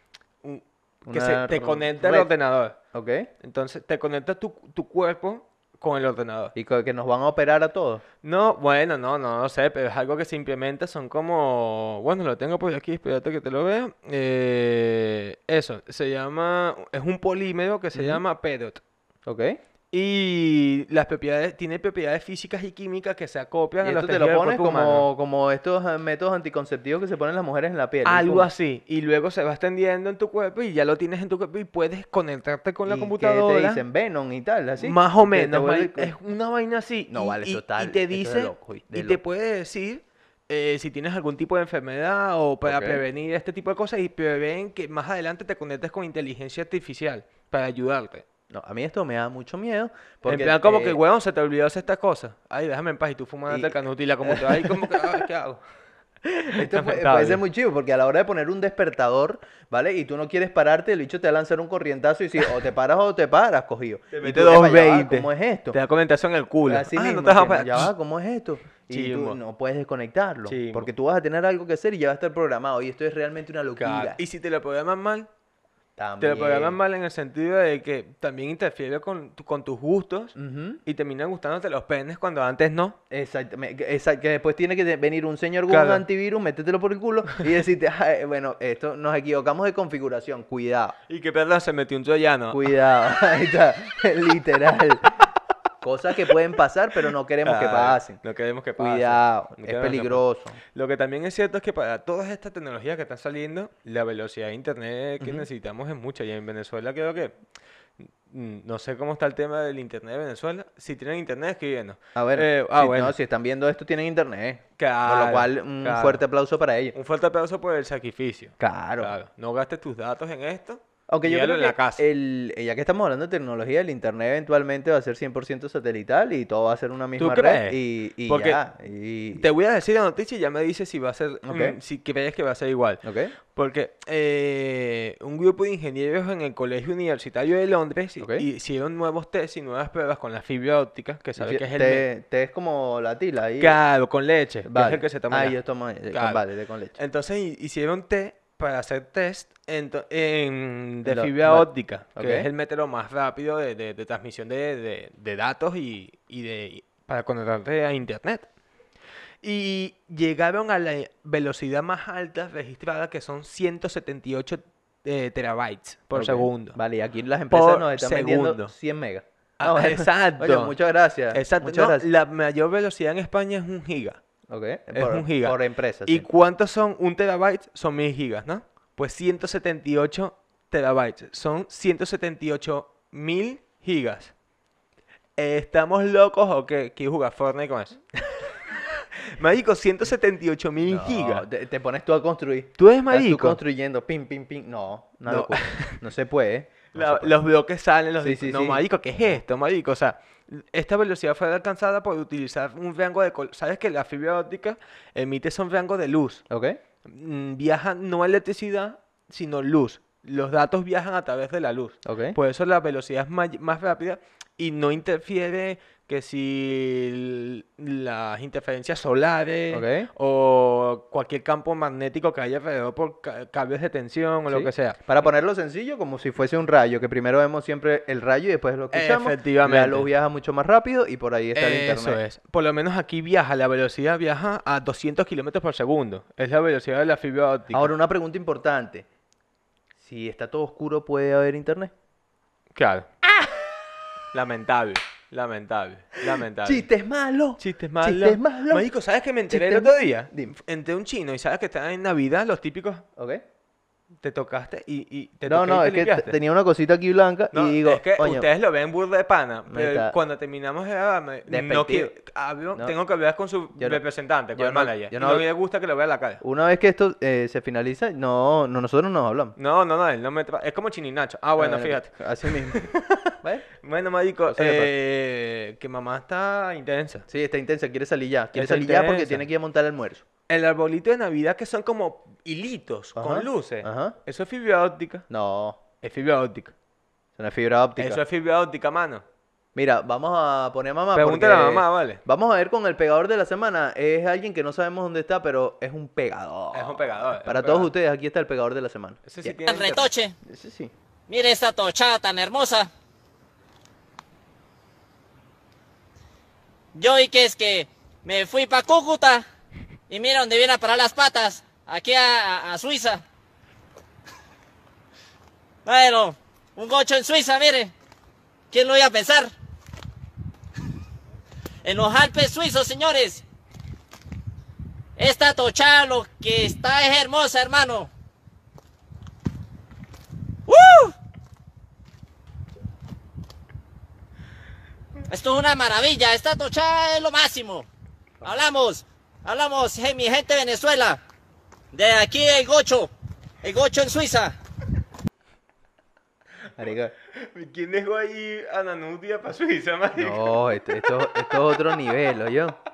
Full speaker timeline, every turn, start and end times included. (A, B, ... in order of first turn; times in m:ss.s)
0:00.4-0:02.8 A
0:01.1-0:03.3 B
0:03.4-0:06.5 A
0:06.5-0:08.0 B
0:08.2-0:18.8 A
0:17.9-0:18.2 B
0:19.2-0:19.6 B
0:19.9-0:25.1 A
0:23.8-0:28.5 B
0:28.0-0:33.8 A
0:32.8-0:36.1 B
0:34.8-0:48.2 A
0:37.1-0:39.2 B
0:42.6-0:43.0 B
0:48.5-0:51.0 B
0:50.2-0:55.6 A
0:53.5-0:55.2 B
0:56.2-1:05.8 B
0:56.5-0:57.4 A
1:04.1-1:07.9 A
1:06.7-1:14.2 B
1:08.9-1:09.4 A
1:10.5-1:10.9 A
1:13.8-1:15.3 A
1:16.0-1:16.8 B
1:16.2-1:23.0 A
1:20.4-1:20.8 B
1:23.1-1:31.0 B
1:25.7-1:26.0 A
1:31.1-1:32.7 A
1:32.5-1:35.3 B
1:35.8-1:38.2 B
1:37.4-1:47.3 A
1:38.8-1:40.6 B
1:45.2-1:45.4 B
1:48.0-1:53.1 A
1:52.1-1:57.0 B
1:54.8-1:56.2 A
1:56.9-2:02.0 A
1:58.6-1:59.1 B
2:01.1-2:09.4 B
2:07.2-2:08.6 A
2:09.3-2:22.1 A
2:11.4-2:11.8 B
2:13.0-2:13.3 B
2:18.2-2:18.4 B
2:21.4-2:23.8 B
2:23.6-2:25.6 A
2:24.6-2:27.0 B
2:26.1-2:26.4 A
2:27.0-2:38.5 A
2:31.0-2:32.5 B
2:39.4-2:46.8 A
2:46.1-2:52.0 B
2:47.5-2:48.7 A
2:49.6-2:50.8 A
2:51.3-2:54.2 A
2:54.5-2:56.2 B
2:54.9-3:04.3 A
3:05.4-3:08.0 A
3:08.7-3:11.4 A
3:10.8-3:17.3 B
3:12.8-3:13.6 A
3:15.3-3:16.0 A
3:16.9-3:26.4 A
3:18.2-3:19.4 B
3:26.5-3:26.8 B
3:27.0-3:45.0 A
3:32.0-3:32.4 B
3:39.7-3:40.1 B
3:44.5-3:52.2 B
3:48.9-3:50.1 A
3:51.5-3:57.9 A
3:57.7-3:59.0 B
4:00.0-4:01.9 B
4:02.7-4:03.1 A
4:04.3-4:06.8 A
4:06.3-4:08.9 B
4:07.6-4:13.0 A
4:09.5-4:10.5 B
4:13.2-4:13.4 B
4:14.2-4:16.3 A
4:15.5-4:18.5 B
4:17.5-4:26.4 A
4:19.7-4:20.1 B
4:21.5-4:22.1 B
4:23.8-4:25.4 B
4:26.4-4:29.5 B
4:29.6-4:37.2 A
4:31.6-4:32.9 B
4:33.4-4:33.7 B
4:34.5-4:34.9 B
4:37.3-4:40.2 B
4:38.5-4:39.4 A
4:40.5-4:45.2 A
4:43.2-4:44.2 B
4:45.3-4:45.8 B
4:46.0-4:46.7 A
4:47.4-4:48.2 B
4:48.0-4:49.2 A
4:49.7-4:59.6 B
4:51.1-4:52.2 A
4:56.7-4:57.9 A
4:59.2-5:00.1 A
4:59.7-5:00.3 C
5:00.4-5:00.9 B
5:01.3-5:02.9 C
5:06.9-5:09.4 C
5:10.1-5:13.2 C
5:15.8-5:17.9 C
5:18.7-5:19.5 C
5:21.8-5:23.4 C
5:25.2-5:28.1 C
5:30.7-5:31.1 C
5:35.3-5:37.8 C
5:38.4-5:41.2 C
5:41.9-5:43.1 C
5:43.6-5:44.5 C
5:46.8-5:47.1 B
5:47.3-5:50.6 A
5:50.2-5:52.8 B